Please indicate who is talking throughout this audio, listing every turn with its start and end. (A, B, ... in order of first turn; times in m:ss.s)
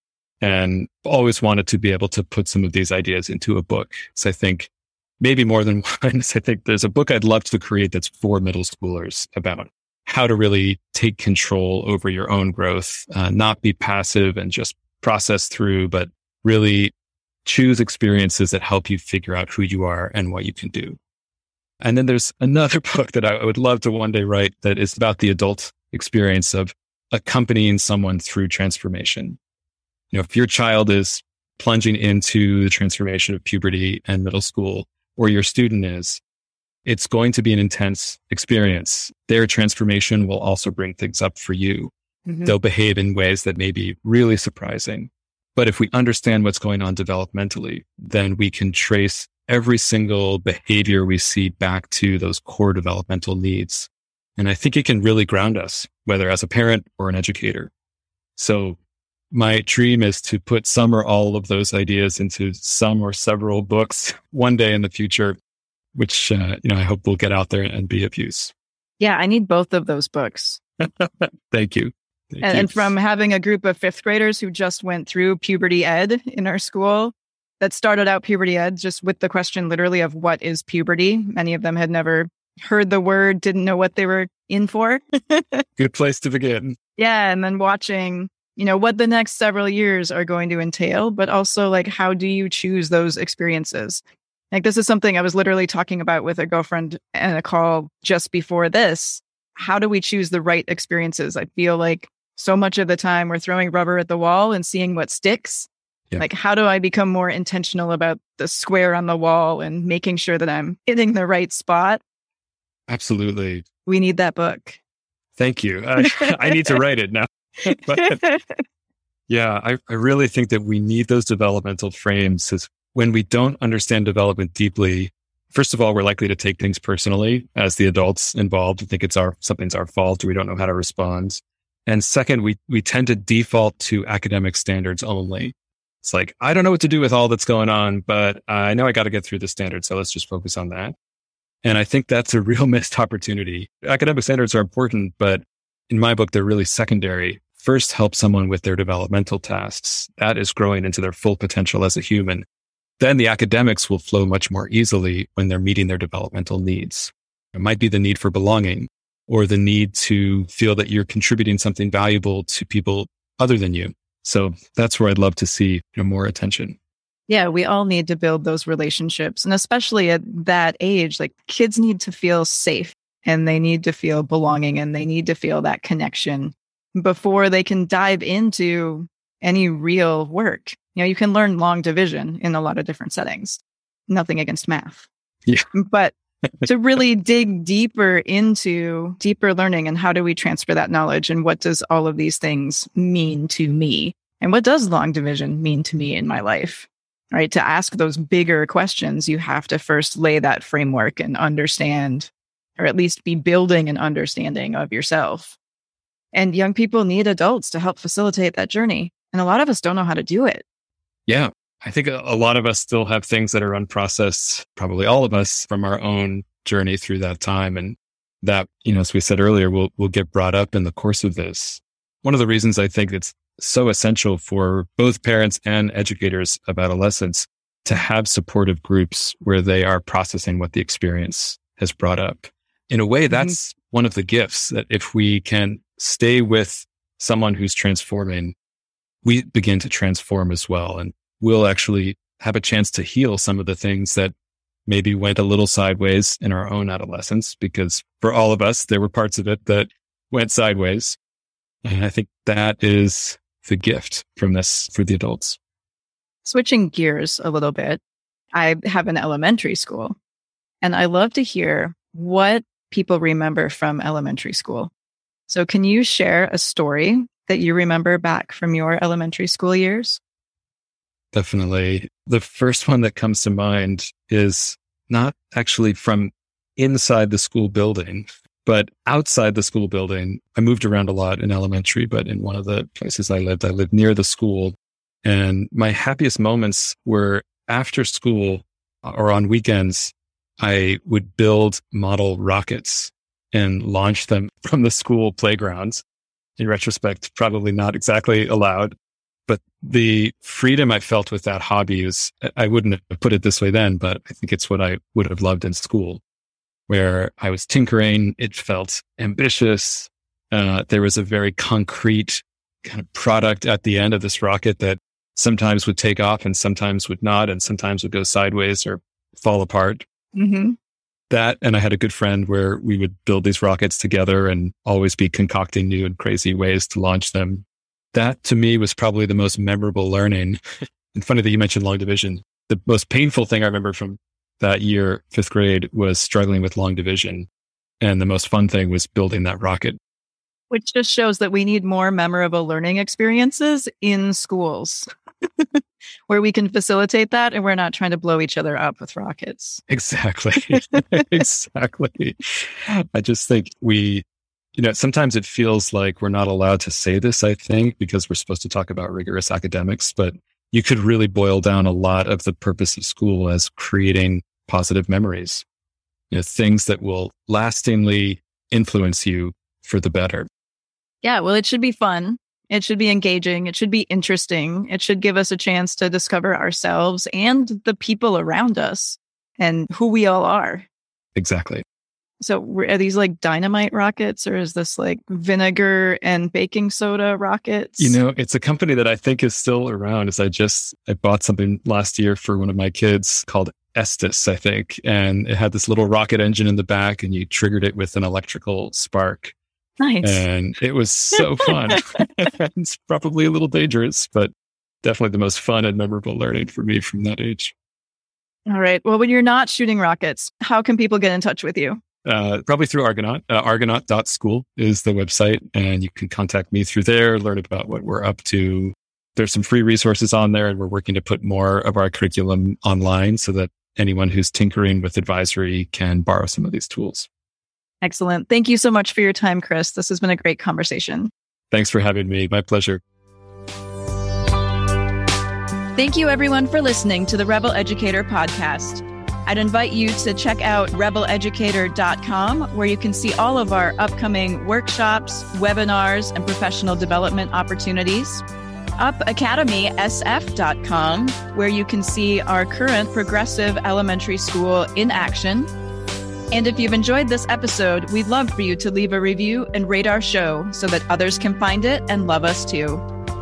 0:00.4-0:16.9 A
0:17.4-0:21.0 A
0:21.8-0:29.4 A
0:30.1-0:36.2 A
0:36.8-0:41.9 A
0:42.3-0:42.6 B
0:42.4-0:57.7 A
0:58.4-0:58.8 A
0:59.3-1:05.4 A
1:06.0-1:08.5 A
1:09.0-1:10.6 B
1:10.9-1:12.9 A
1:12.4-1:25.6 B
1:25.8-1:26.8 A
1:27.0-1:52.0 B
1:52.9-1:53.6 A
1:53.9-1:54.8 B
1:55.4-1:58.2 A
1:56.0-1:56.8 B
1:57.7-1:58.6 B
1:59.3-2:21.0 A
2:21.6-2:32.5 A
2:33.0-2:46.8 A
2:47.3-3:05.1 B
3:05.7-3:25.6 B
3:26.3-3:30.6 B
3:31.3-3:58.6 A
3:59.2-4:04.3 A
4:04.9-4:11.2 A
4:11.8-4:15.6 A
4:16.4-4:18.0 B
4:18.5-4:20.2 B
4:20.8-4:24.9 B
4:25.5-4:30.2 B
4:31.3-4:56.0 A
4:56.6-4:59.0 A
4:59.5-5:06.2 A
5:06.9-5:20.0 A
5:20.4-5:20.8 B
5:21.3-5:30.6 A
5:31.1-5:37.5 A
5:38.0-5:40.0 A
5:40.7-5:45.1 B
5:45.6-5:49.8 B
5:49.9-6:05.6 A
5:50.7-5:51.0 B
6:06.3-6:10.5 A
6:11.2-6:20.9 B
6:21.4-6:21.8 A
6:22.4-6:28.2 B
6:28.0-6:39.5 A
6:40.0-6:40.4 B
6:40.2-6:44.5 A
6:45.0-6:47.7 A
6:48.7-6:52.0 B
6:52.2-7:07.3 A
7:08.0-7:11.3 B
7:11.7-7:13.0 A
7:16.0-7:28.4 B
7:29.0-7:35.7 B
7:36.5-7:43.0 B